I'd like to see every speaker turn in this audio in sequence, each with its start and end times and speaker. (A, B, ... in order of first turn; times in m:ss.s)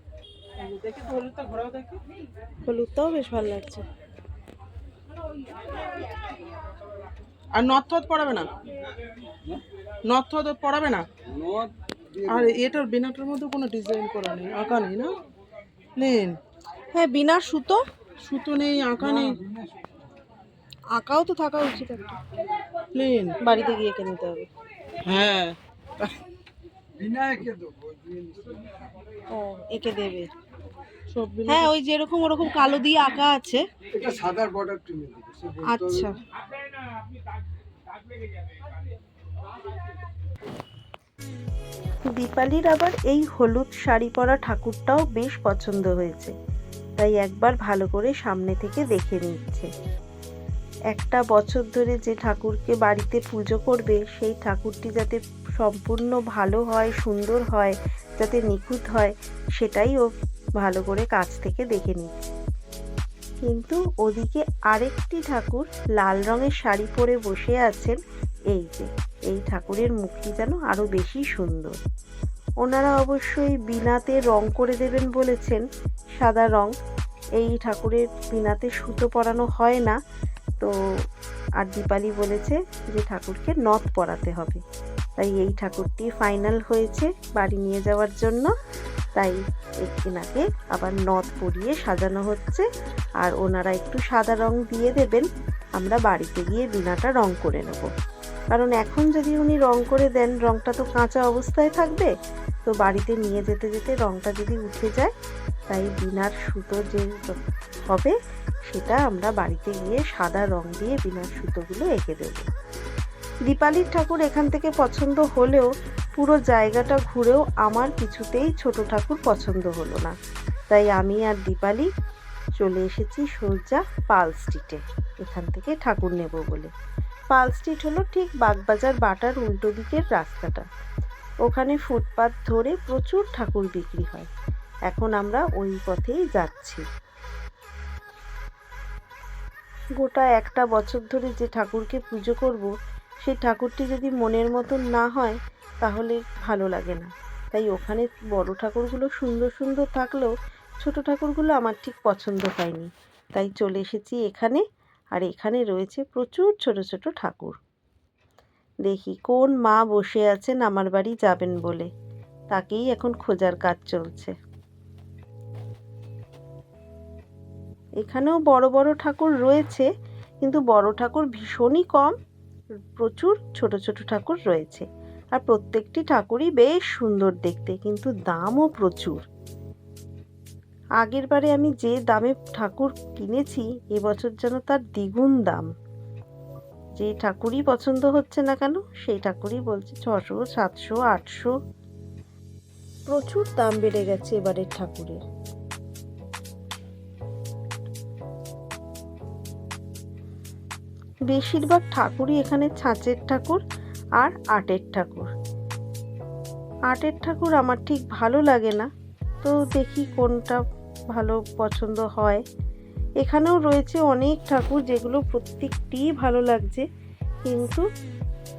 0:00.6-0:02.0 A
0:02.7-0:03.8 B
0:07.5-0:08.5 A
0:10.1-0:11.0 A
0:11.4-0:12.4 C
0:12.3-0:15.1 A
0:16.0-0:16.4 A
0:16.9-0:17.8 B
0:18.2-0:19.4 A
0:20.9-0:22.0 B
0:23.0-0:23.4 A
0:23.4-0:24.4 B
0:25.0-0:26.1 A
0:27.0-0:28.6 C
0:29.4-0:30.2 B
0:31.1-0:31.7 A
0:31.5-0:33.6 B
0:34.0-0:36.1 C
0:35.7-0:36.1 B
0:42.1-0:46.3 B
0:47.0-0:49.7 B
0:50.9-1:00.1 B
1:00.6-1:02.1 B
1:03.4-1:08.0 B
1:08.5-1:11.7 B
1:12.6-1:15.6 B
1:16.2-1:16.7 B
1:17.4-1:20.0 B
1:21.6-1:24.6 B
1:25.2-1:28.5 B
1:29.2-1:32.6 B
1:33.2-1:35.2 B
1:35.8-1:37.9 B
1:38.5-1:42.1 B
1:42.7-1:45.1 B
1:45.7-1:48.1 B
1:48.7-1:52.4 B
1:53.5-2:00.1 B
2:00.7-2:01.9 B
2:02.6-2:06.7 B
2:07.3-2:10.6 B
2:11.4-2:14.3 B
2:14.9-2:16.8 B
2:20.0-2:22.7 B
2:23.2-2:30.3 B
2:30.8-2:34.6 B
2:35.1-2:37.6 B
2:38.8-2:41.9 B
2:42.5-2:44.3 B
2:48.0-2:49.9 B
2:50.4-2:52.1 B
2:52.9-2:59.2 B
3:01.0-3:05.7 B
3:07.0-3:11.5 B
3:13.1-3:15.2 B
3:21.3-3:23.6 B
3:24.2-3:25.3 B
3:26.9-3:28.9 B
3:29.4-3:30.6 B
3:31.1-3:32.4 B
3:33.2-3:36.8 B
3:37.4-3:37.8 B